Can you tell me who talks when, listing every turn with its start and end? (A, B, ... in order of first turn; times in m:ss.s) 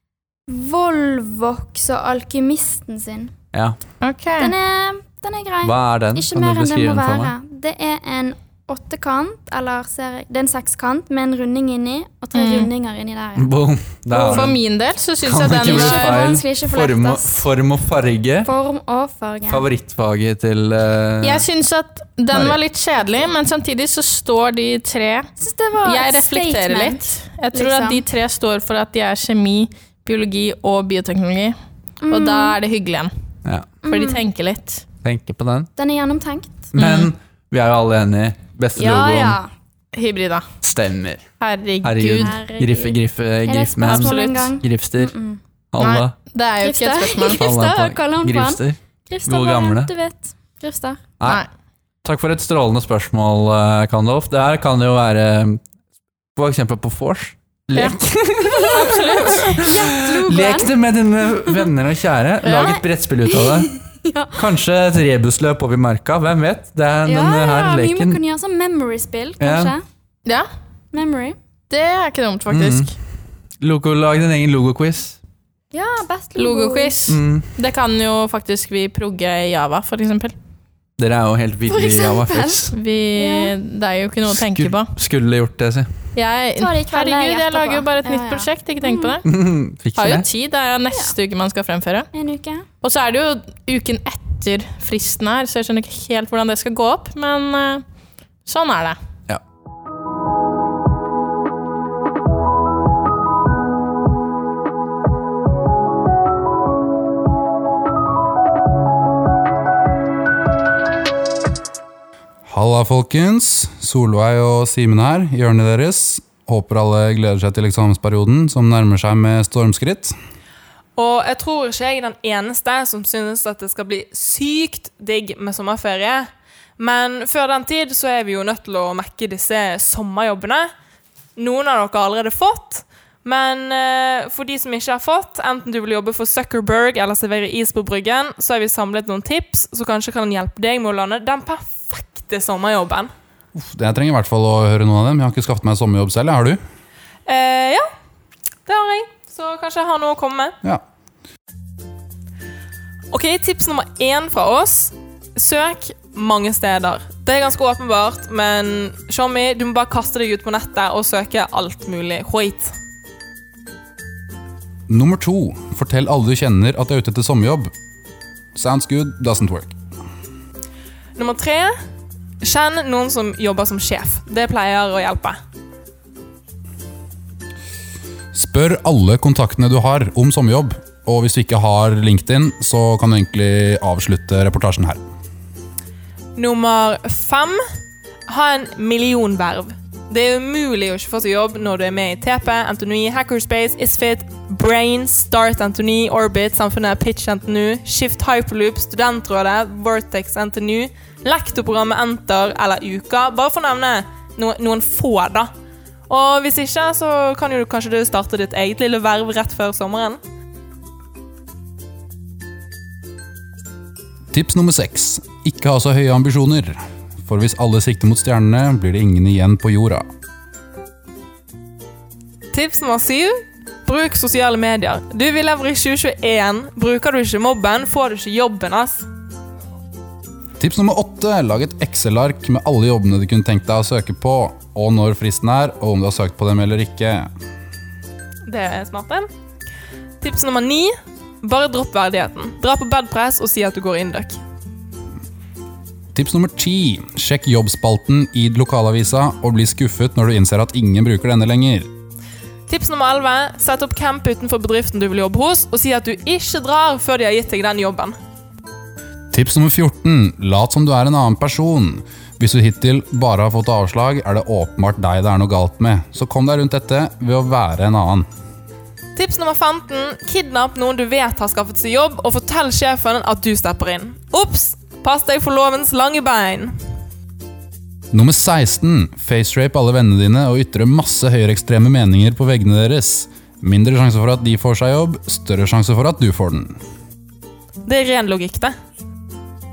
0:00.5-0:03.3 A
0:03.5-0:03.8 B
0:04.0-0:04.5 C
0:04.4-0:13.5 A
0:05.6-0:07.3 B
0:12.3-0:12.7 C
0:13.4-0:14.6 B
0:14.1-0:14.4 A
0:14.1-0:16.4 C
0:15.2-0:18.5 B
0:15.5-0:17.4 A
0:18.4-0:19.6 A
0:19.5-0:21.4 B
0:21.2-0:25.3 C
0:22.3-0:22.6 B
0:25.4-0:27.0 A
0:25.8-0:31.5 C
0:27.5-0:28.0 A
0:32.0-0:32.6 A
0:32.1-0:33.1 C
0:33.8-0:34.2 A
0:33.9-0:34.8 C
0:35.0-0:35.7 B
0:35.8-0:36.7 A
0:36.7-0:39.4 B
0:36.8-0:37.1 C
0:38.8-0:39.5 A
0:39.9-0:40.4 C
0:40.6-0:41.2 B
0:41.4-0:42.3 C
0:41.8-0:45.1 B
0:42.2-0:45.4 A
0:43.8-0:44.6 C
0:45.7-0:46.1 B
0:45.8-0:47.4 C
0:46.6-0:51.0 A
0:47.3-0:49.9 B
0:52.0-0:55.6 B
0:56.4-1:03.7 B
0:58.4-1:00.7 A
0:58.7-0:59.4 C
1:02.4-1:02.8 C
1:02.5-1:04.4 A
1:04.3-1:08.2 B
1:07.0-1:09.8 A
1:09.4-1:09.7 B
1:10.9-1:11.4 A
1:11.7-1:12.9 C
1:12.5-1:12.9 B
1:13.6-1:15.2 B
1:15.7-1:16.9 A
1:16.4-1:20.3 C
1:17.1-1:17.5 B
1:21.0-1:22.7 B
1:21.7-1:22.6 A
1:22.7-1:24.9 C
1:23.1-1:23.5 A
1:24.3-1:26.0 B
1:26.2-1:29.3 C
1:26.6-1:29.2 A
1:29.2-1:30.3 B
1:30.0-1:32.1 C
1:32.1-1:32.6 A
1:32.8-1:37.8 C
1:38.4-1:39.0 C
1:52.5-2:00.1 D
2:01.0-2:10.7 E
2:11.4-2:23.1 E
2:23.6-2:26.6 D
2:27.2-2:27.9 E
2:28.6-2:30.5 E
2:33.1-2:42.7 E
2:44.9-2:47.7 D
2:48.6-2:49.7 D
2:51.2-2:51.7 E
2:52.4-2:55.4 E
2:58.3-3:05.0 D
3:06.4-3:07.6 E
3:08.3-3:25.5 E
3:26.1-3:30.2 E
3:34.3-3:40.0 D
3:42.5-3:49.0 E
3:50.6-3:57.3 D
3:58.5-3:59.3 E
4:00.2-4:04.4 E
4:06.1-4:11.9 D
4:12.7-4:18.2 E
4:19.3-4:28.3 D
4:29.2-4:36.7 E
4:38.1-4:46.8 D
4:47.8-4:48.7 E